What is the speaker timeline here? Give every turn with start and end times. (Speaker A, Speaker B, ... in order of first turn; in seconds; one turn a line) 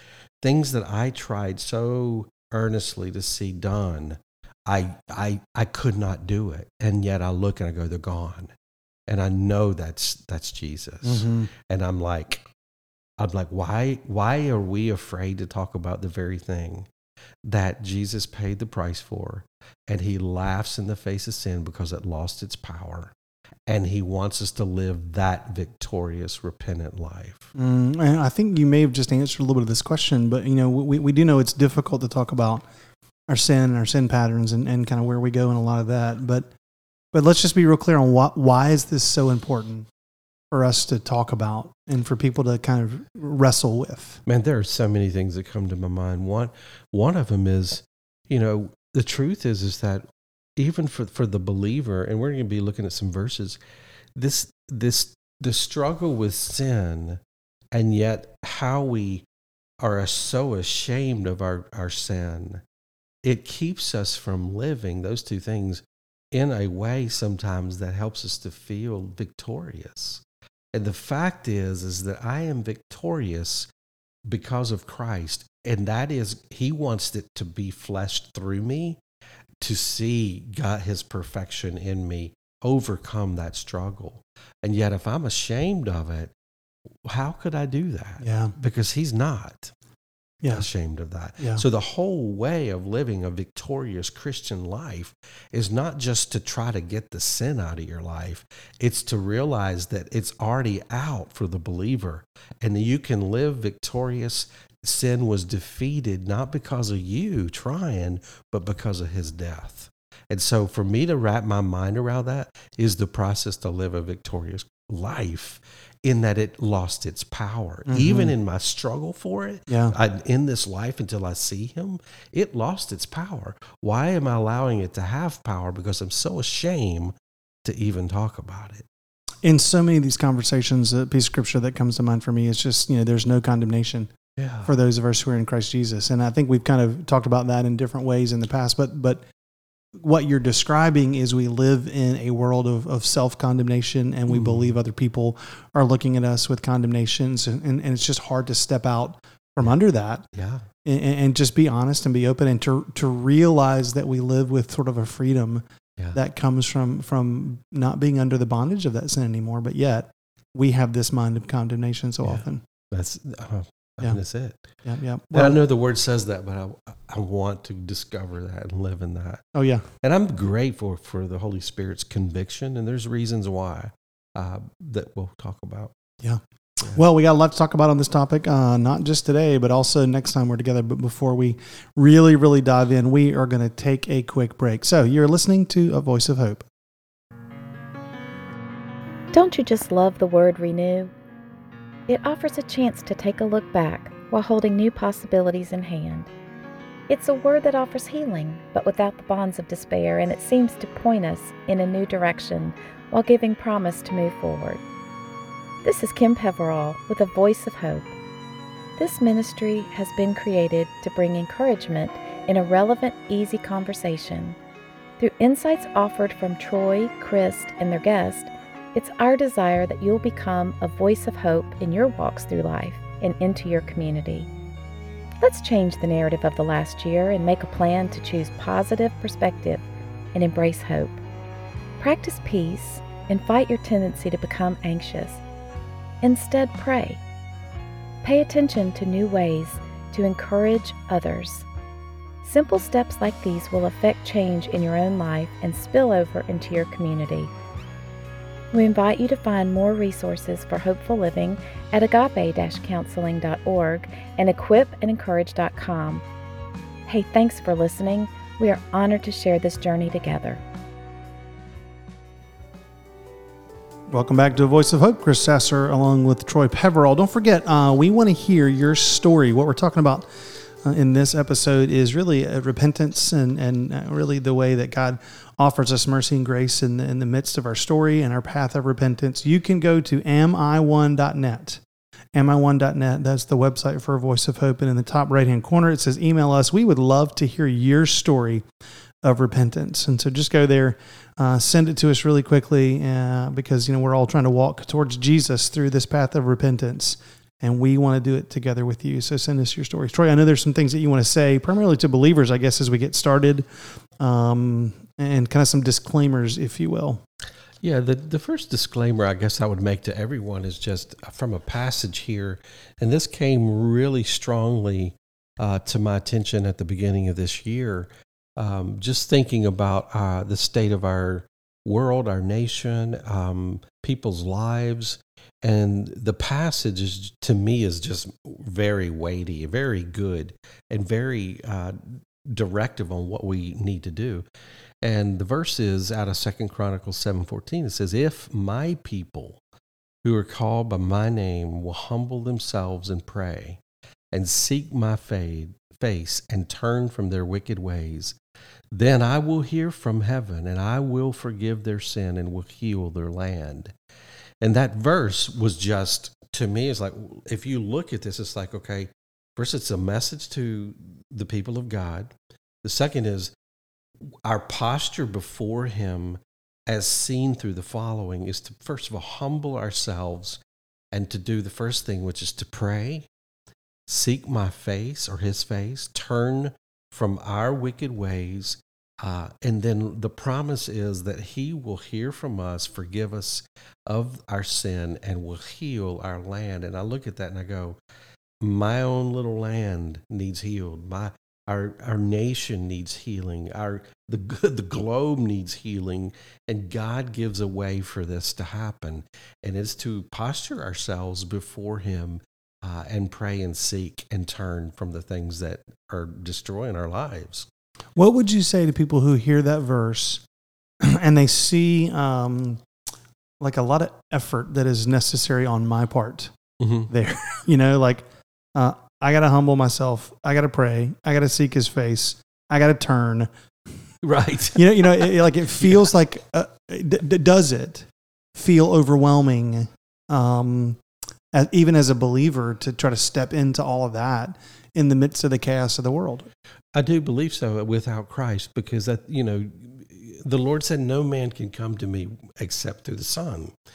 Speaker A: 0.4-8.5
Speaker A: 9.1-12.4
Speaker B: 11.0-11.5
Speaker A: 13.2-16.9
Speaker A: 17.4-23.1
Speaker A: 23.7-27.5
Speaker B: 27.6-32.6
Speaker B: 33.3-36.5
Speaker B: 37.1-39.9
Speaker B: 40.5-44.2
Speaker A: 44.3-50.0
Speaker A: 50.6-53.6
Speaker A: 54.1-57.2
Speaker A: 57.7-59.3
Speaker A: 59.8-62.6
Speaker A: 63.2-73.7
Speaker A: 74.3-79.0
Speaker A: 79.6-86.3
Speaker A: 87.0-89.7
Speaker B: 88.2-88.5
Speaker B: 90.4-90.7
Speaker A: 90.5-128.9
Speaker B: 91.4-91.6
Speaker B: 117.9-118.3
Speaker B: 119.7-120.0
Speaker B: 129.4-134.1
Speaker A: 134.4-134.7
Speaker B: 134.7-139.2
Speaker B: 140.0-150.2
Speaker A: 144.3-144.8
Speaker A: 150.3-150.7
Speaker B: 150.8-162.6
Speaker A: 162.2-164.6
Speaker B: 164.8-165.6
Speaker A: 165.3-169.4
Speaker B: 169.5-169.8
Speaker A: 170.0-175.9
Speaker B: 176.2-186.7
Speaker C: 189.3-191.1
Speaker C: 192.1-196.3
Speaker C: 197.1-204.8
Speaker C: 205.8-208.1
Speaker C: 209.0-214.6
Speaker C: 215.2-224.5
Speaker C: 225.4-231.2
Speaker C: 232.0-235.4
Speaker C: 236.2-237.2
Speaker C: 238.2-241.7
Speaker C: 242.4-247.5
Speaker C: 248.7-256.2
Speaker C: 257.1-260.6
Speaker B: 264.1-270.3
Speaker B: 270.8-281.8
Speaker B: 282.4-288.6
Speaker B: 289.2-303.7
Speaker B: 304.2-307.2
Speaker A: 307.8-334.5
Speaker A: 335.0-339.6
Speaker A: 340.2-343.8
Speaker A: 344.3-348.4
Speaker A: 348.9-353.9
Speaker A: 354.6-363.5
Speaker A: 364.4-370.6
Speaker A: 371.1-373.3
Speaker A: 374.1-388.0
Speaker A: 388.6-407.7
Speaker B: 408.2-410.4
Speaker B: 411.0-412.8
Speaker B: 413.6-416.6
Speaker A: 416.8-417.1
Speaker B: 417.1-423.5
Speaker A: 424.2-426.0
Speaker B: 424.8-431.0
Speaker B: 431.5-436.5
Speaker A: 436.9-443.7